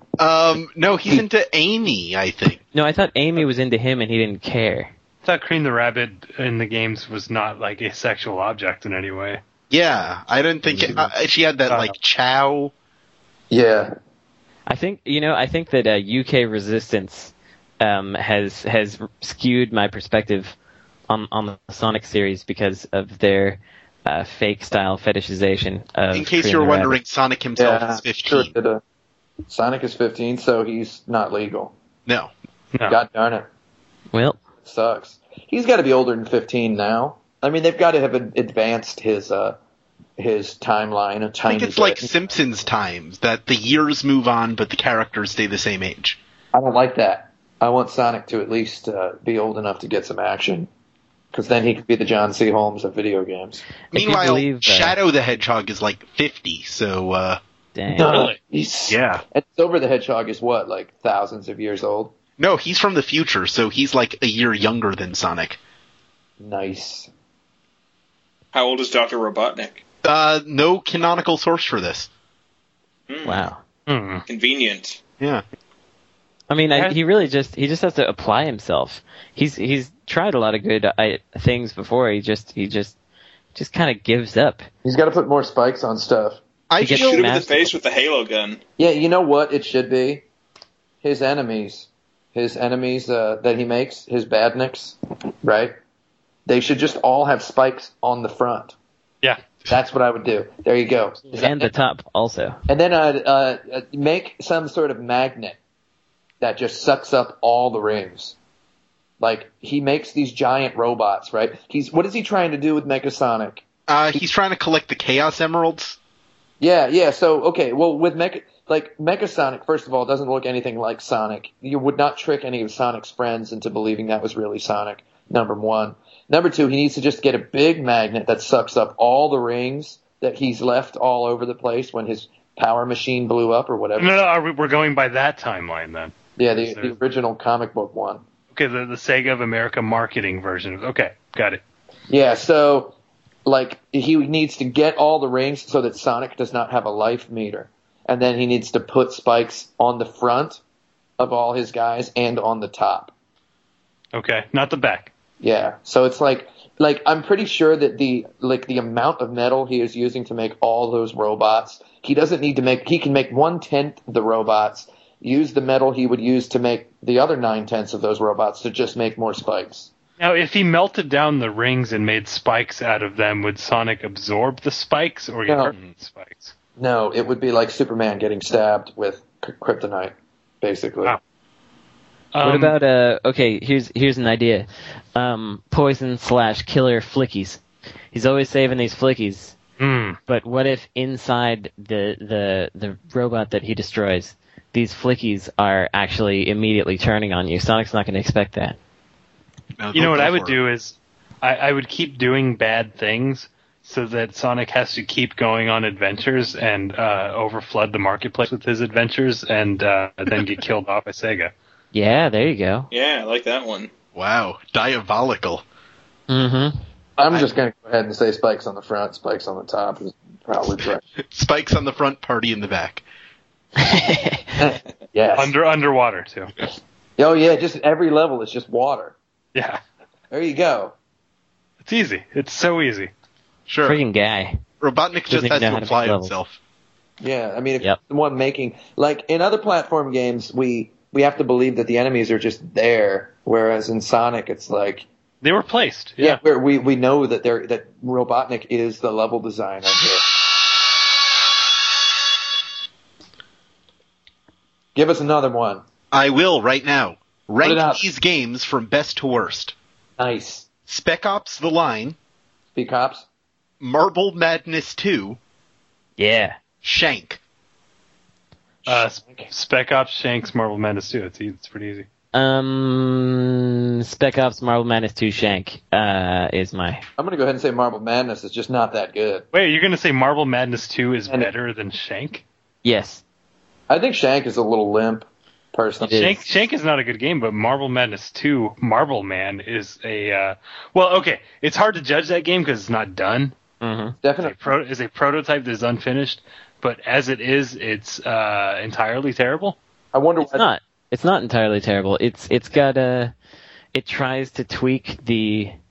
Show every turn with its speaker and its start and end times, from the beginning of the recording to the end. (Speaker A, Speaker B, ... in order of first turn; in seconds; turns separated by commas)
Speaker A: 0.2-2.6, Speaker B: 2.7-4.9, Speaker C: 5.2-9.4, Speaker A: 9.7-12.7, Speaker C: 11.7-11.9, Speaker D: 13.5-13.9, Speaker B: 14.7-20.6, Speaker B: 21.1-27.0, Speaker A: 26.1-28.5, Speaker D: 27.6-28.8, Speaker D: 29.5-31.7, Speaker A: 32.1-32.3, Speaker D: 32.9-33.5, Speaker B: 34.1-34.4, Speaker D: 34.6-39.6, Speaker D: 40.2-42.1, Speaker A: 41.5-46.2, Speaker D: 46.5-50.7, Speaker D: 51.3-53.6, Speaker B: 53.9-55.0, Speaker A: 53.9-57.4, Speaker B: 57.8-58.3, Speaker D: 58.0-62.1, Speaker A: 58.9-59.2, Speaker A: 62.4-65.6, Speaker D: 66.4-67.1, Speaker E: 68.5-69.8, Speaker A: 70.0-72.1, Speaker E: 73.1-73.5, Speaker B: 73.2-73.6, Speaker C: 73.9-74.2, Speaker E: 74.3-75.0, Speaker B: 76.5-83.0, Speaker B: 83.5-84.7, Speaker D: 84.8-86.4, Speaker A: 86.7-87.3, Speaker E: 86.8-88.6, Speaker B: 86.8-87.7, Speaker D: 88.8-90.2, Speaker D: 91.0-95.8, Speaker D: 96.5-98.8, Speaker D: 99.7-101.7, Speaker B: 101.3-102.6, Speaker D: 102.7-105.6, Speaker D: 106.4-108.4, Speaker D: 109.2-114.2, Speaker A: 113.9-116.0, Speaker D: 116.6-134.2, Speaker C: 134.0-136.9, Speaker D: 136.4-138.2, Speaker C: 138.5-141.6, Speaker D: 142.1-150.6, Speaker D: 151.2-153.1, Speaker C: 154.1-155.1, Speaker D: 155.4-169.9, Speaker C: 170.2-176.5, Speaker D: 175.5-175.7, Speaker D: 176.8-181.2, Speaker C: 182.3-182.8, Speaker B: 182.4-187.6, Speaker B: 188.1-189.6, Speaker C: 189.8-190.2, Speaker B: 190.3-198.8, Speaker A: 199.8-200.6, Speaker C: 199.9-211.5, Speaker B: 211.9-212.9, Speaker E: 212.9-213.9, Speaker A: 214.2-215.6, Speaker B: 216.3-216.8, Speaker D: 217.2-221.1, Speaker A: 221.2-223.0, Speaker B: 223.8-224.6, Speaker D: 224.6-225.5, Speaker C: 225.4-226.5, Speaker D: 227.2-229.2, Speaker C: 229.6-229.8, Speaker D: 230.3-230.9, Speaker C: 231.8-233.1, Speaker A: 233.7-234.0, Speaker B: 233.8-234.6, Speaker A: 234.8-236.6, Speaker B: 235.3-236.3, Speaker D: 237.2-245.1, Speaker C: 245.4-246.4, Speaker D: 246.2-250.2, Speaker D: 254.9-255.8, Speaker A: 256.1-259.8, Speaker D: 257.6-258.0, Speaker D: 260.2-260.7, Speaker A: 260.9-262.2, Speaker D: 262.8-263.2, Speaker A: 263.8-265.4, Speaker B: 266.2-266.6, Speaker A: 266.8-267.4, Speaker D: 268.9-269.5, Speaker C: 268.9-272.1, Speaker B: 272.3-277.0, Speaker D: 277.2-279.5, Speaker C: 279.5-282.4, Speaker B: 282.8-283.2, Speaker D: 283.9-286.4, Speaker B: 286.0-286.3, Speaker C: 286.1-293.5, Speaker B: 293.8-294.2, Speaker D: 294.2-294.7, Speaker C: 294.4-299.8, Speaker D: 300.1-300.7, Speaker B: 300.4-303.3, Speaker B: 303.9-305.7